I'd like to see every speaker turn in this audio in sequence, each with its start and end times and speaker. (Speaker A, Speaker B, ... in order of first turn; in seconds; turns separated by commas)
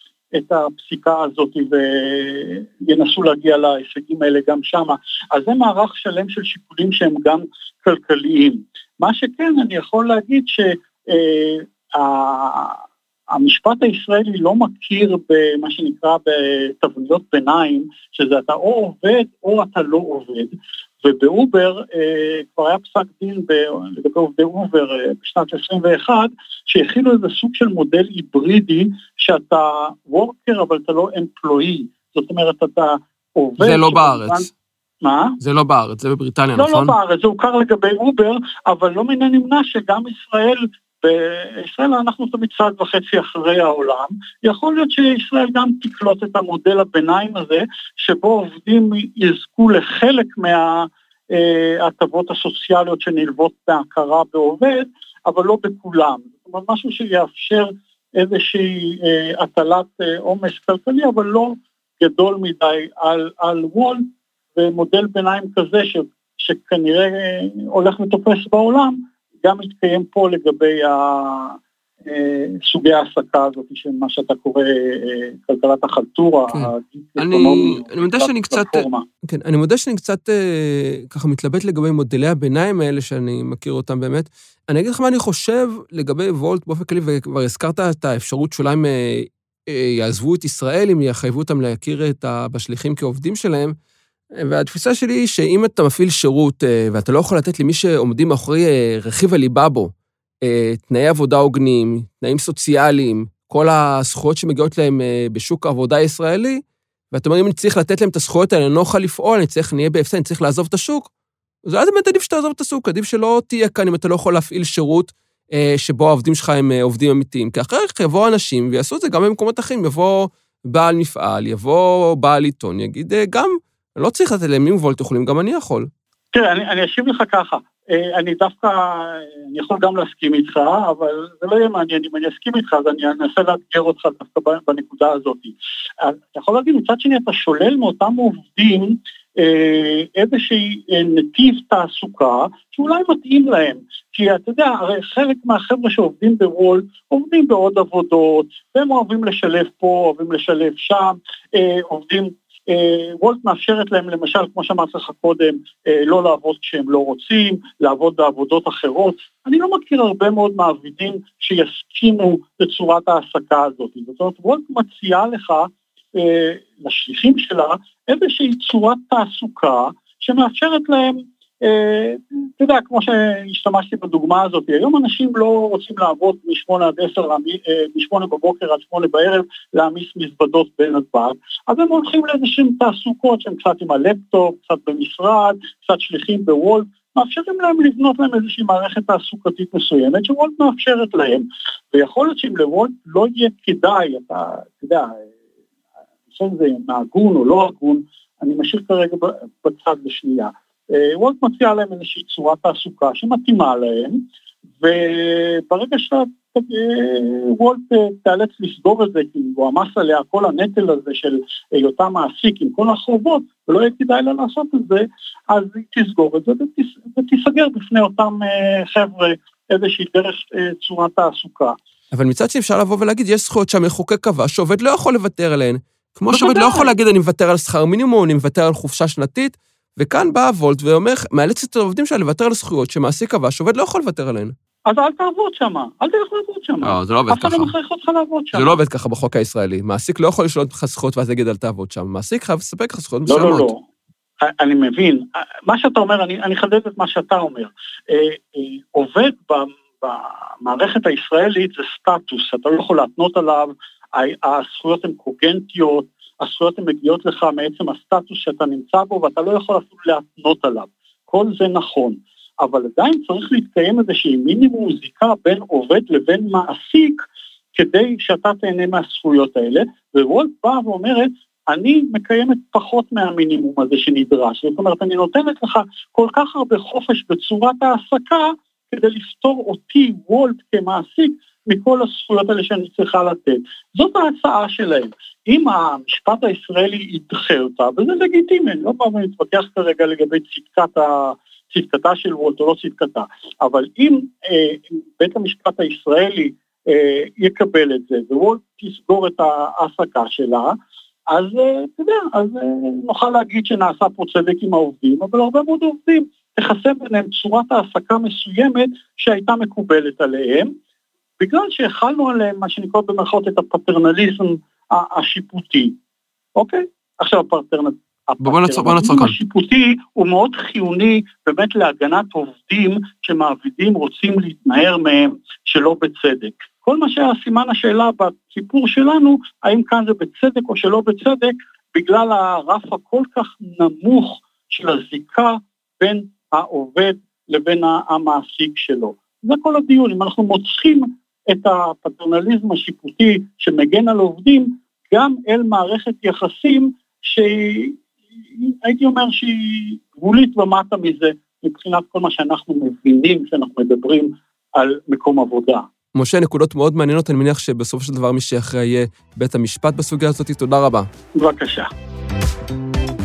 Speaker A: 0.3-12.8, Speaker A: 13.3-34.5, Speaker B: 33.6-34.5, Speaker A: 35.0-35.4, Speaker B: 35.4-37.0, Speaker A: 36.6-79.0, Speaker B: 76.5-93.8, Speaker B: 94.4-99.9, Speaker B: 100.4-111.1, Speaker B: 111.7-125.9, Speaker A: 126.3-195.2, Speaker A: 196.3-204.2, Speaker A: 204.8-221.8, Speaker B: 222.1-234.5, Speaker A: 226.3-226.9, Speaker A: 234.9-238.8, Speaker B: 236.8-237.7, Speaker B: 238.5-243.7, Speaker A: 243.3-243.8, Speaker A: 244.4-267.2, Speaker A: 267.8-300.8, Speaker A: 301.3-310.7, Speaker A: 311.4-315.9, Speaker A: 316.6-348.0, Speaker B: 318.4-319.4, Speaker A: 348.6-355.9, Speaker B: 356.1-361.1, Speaker A: 361.4-361.9